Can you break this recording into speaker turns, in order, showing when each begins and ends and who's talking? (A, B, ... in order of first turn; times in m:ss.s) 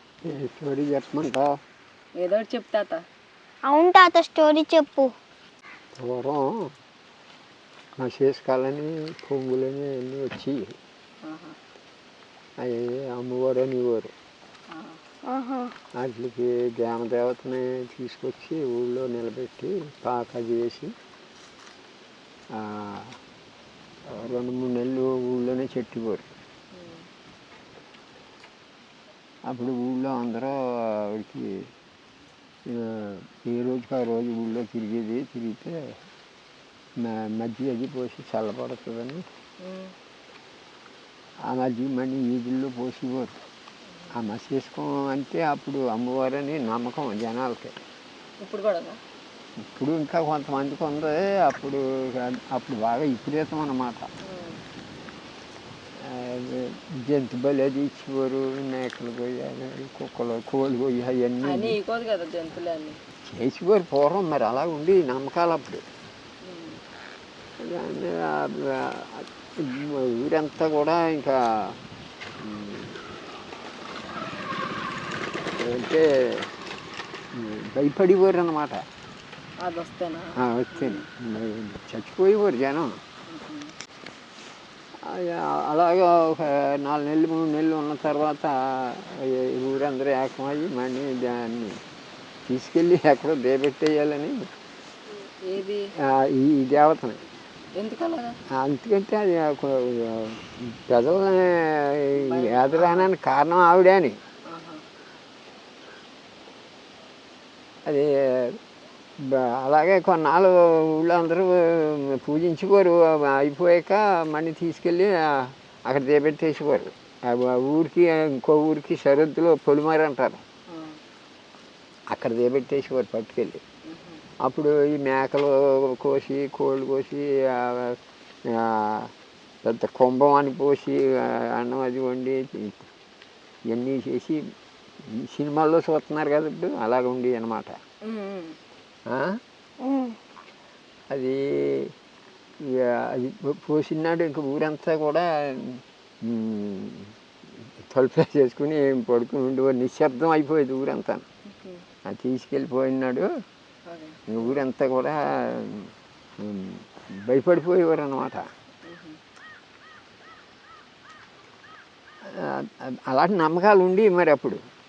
0:00.2-0:01.6 A
0:02.2-0:03.0 B
0:03.6-0:05.1 C
0:06.0-0:06.7 A
0:08.0-0:10.8 A
0:11.2-0:11.6 B
0:12.6-0:14.1 A
0:14.7-0:15.1 B
0:15.2-0:15.7 C
0:16.0-0:20.9 A
0:22.5-0:23.2 A
0:24.1-0:26.3 A
0:26.8-0:27.1 B
0:29.5-0:31.6 A
0:32.7-0:35.9 A
0:37.0-0:39.2 A
0:39.6-0:39.9 B
0:41.5-0:43.4 A
0:44.1-0:47.7 A
0:48.4-0:49.0 B
0:49.7-0:54.1 A
0:54.3-0:54.6 B
0:56.0-1:01.8 A
1:01.4-1:03.0 B
1:03.3-1:05.8 A
1:06.4-1:06.8 B
1:07.6-1:11.8 A
1:12.4-1:13.0 A
1:15.6-1:16.5 A
1:17.3-1:18.8 A
1:19.6-1:21.1 B
1:20.4-1:23.0 A
1:23.3-1:23.7 B
1:25.0-1:31.8 A
1:32.5-1:34.4 A
1:35.4-1:35.9 B
1:36.0-1:37.2 A
1:37.8-1:38.4 B
1:38.6-1:44.2 A
1:42.2-1:43.1 B
1:44.5-1:44.8 B
1:47.9-1:48.6 A
1:49.2-2:00.4 A
2:00.7-2:01.0 B
2:02.1-2:03.6 A
2:03.9-2:04.2 B
2:04.4-2:09.1 A
2:09.6-2:12.9 A
2:13.7-2:14.4 A
2:15.0-2:17.8 A
2:18.1-2:18.6 B
2:19.1-2:19.4 A
2:19.8-2:20.1 C
2:21.1-2:21.9 A
2:22.6-2:31.2 A
2:31.5-2:31.8 B
2:32.1-2:33.3 A
2:33.9-2:34.6 B
2:34.3-2:38.4 A
2:38.9-2:39.2 B
2:42.2-2:44.6 A